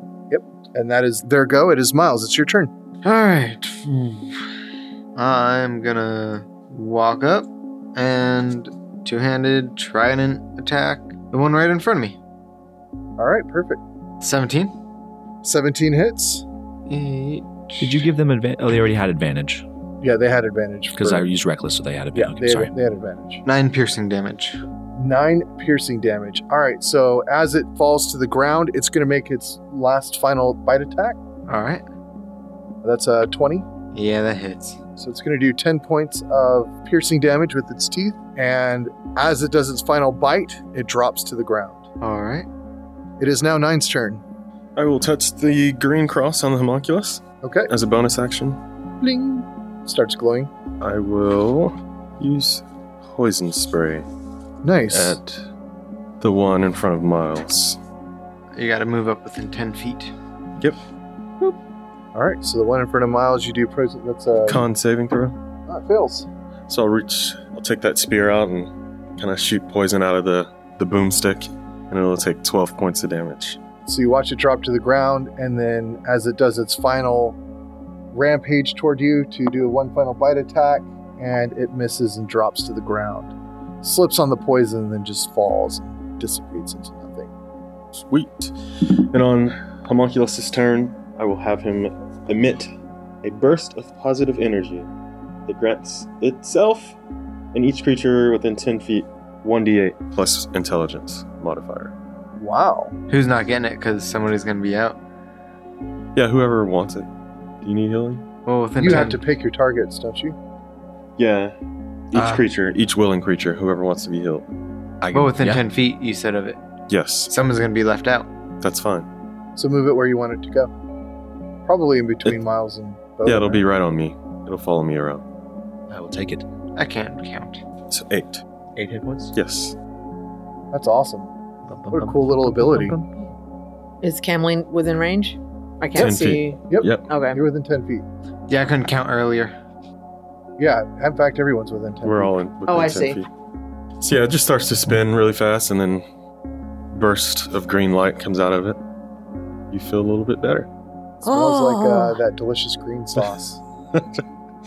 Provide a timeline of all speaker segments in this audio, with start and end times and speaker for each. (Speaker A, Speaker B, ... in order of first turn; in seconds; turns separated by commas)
Speaker A: 0.3-2.7, Speaker B: 3.0-4.4, Speaker B: 5.2-12.2, Speaker A: 13.2-13.8, Speaker B: 14.2-14.8, Speaker A: 15.4-16.4, Speaker B: 16.9-18.1, Speaker C: 17.8-19.7, Speaker A: 20.0-21.3, Speaker C: 21.0-22.7, Speaker A: 22.1-23.4, Speaker B: 23.4-24.6, Speaker A: 25.0-31.2, Speaker B: 31.5-31.8, Speaker A: 32.8-33.7, Speaker B: 33.9-34.8, Speaker A: 35.0-41.8, Speaker B: 42.0-42.5, Speaker A: 43.2-44.2, Speaker D: 44.8-48.6, Speaker A: 47.4-47.7, Speaker A: 49.0-50.5, Speaker D: 50.8-54.0, Speaker A: 54.6-55.2, Speaker D: 54.9-55.5, Speaker D: 56.2-57.8, Speaker B: 58.5-60.1, Speaker A: 62.1-64.7, Speaker D: 64.5-65.4, Speaker A: 65.7-66.3, Speaker D: 66.7-73.6, Speaker A: 73.9-77.4, Speaker A: 78.1-87.3, Speaker D: 88.0-92.7, Speaker D: 93.2-94.9, Speaker D: 95.5-97.0, Speaker D: 97.5-101.9, Speaker A: 102.4-102.9, Speaker B: 103.1-105.0, Speaker D: 106.2-107.1, Speaker D: 107.6-108.2, Speaker B: 108.5-109.2, Speaker A: 108.8-110.4, Speaker D: 111.2-111.5, Speaker D: 112.1-114.5, Speaker B: 112.2-112.4, Speaker C: 115.0-115.6, Speaker B: 115.1-116.6, Speaker D: 116.9-117.3, Speaker B: 117.3-118.3, Speaker D: 118.6-119.1, Speaker A: 119.6-120.7, Speaker A: 121.7-123.6, Speaker D: 123.2-125.2, Speaker C: 125.9-126.5, Speaker B: 126.8-127.6, Speaker D: 127.9-128.4, Speaker C: 128.8-129.3, Speaker D: 129.3-129.8, Speaker A: 130.7-131.3, Speaker C: 131.7-133.3, Speaker A: 131.9-133.0, Speaker E: 134.0-137.4, Speaker D: 135.9-137.1, Speaker A: 136.7-138.1, Speaker B: 138.5-139.5, Speaker A: 140.6-142.4, Speaker D: 142.0-143.3, Speaker E: 142.7-143.2, Speaker D: 144.0-146.1, Speaker D: 146.9-148.8, Speaker D: 149.7-150.7, Speaker A: 151.2-153.6, Speaker E: 151.2-152.2, Speaker D: 153.9-154.2